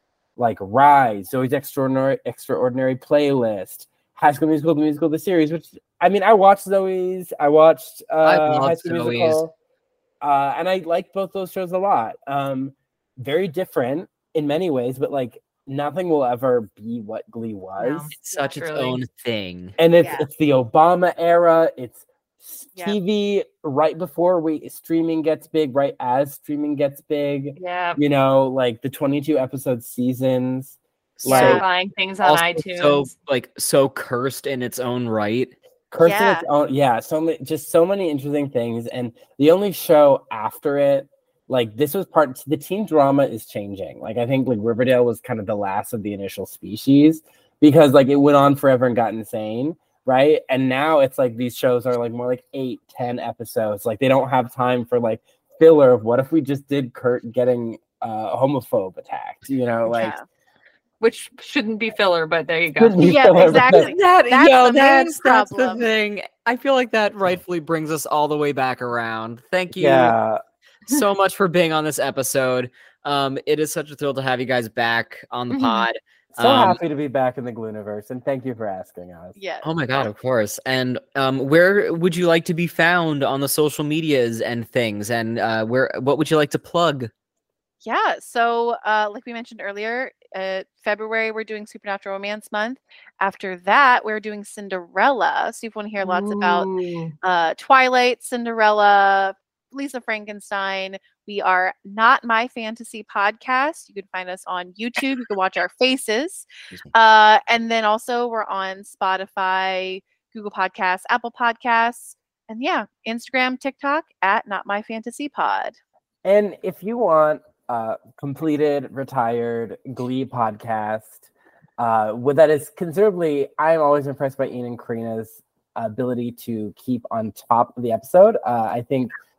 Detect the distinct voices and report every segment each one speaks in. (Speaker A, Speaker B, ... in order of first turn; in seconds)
Speaker A: 0.4-9.5, 10.2-18.1, 19.8-31.6, 35.9-60.1, 62.8-63.9, 69.8-70.4, 76.4-79.3, 116.2-121.2, 121.8-129.1
Speaker B: 8.2-9.4, 18.1-19.8, 31.2-31.6, 32.2-35.5, 63.7-70.1, 70.9-76.8, 79.6-87.1
Speaker C: 17.8-19.0, 27.6-28.0, 31.3-33.1, 61.0-63.5, 75.5-75.9, 96.0-97.1
Speaker D: 20.0-20.3, 31.3-31.6, 36.0-36.5, 59.9-60.2, 63.0-65.9, 79.3-79.7, 87.8-96.7, 97.2-115.8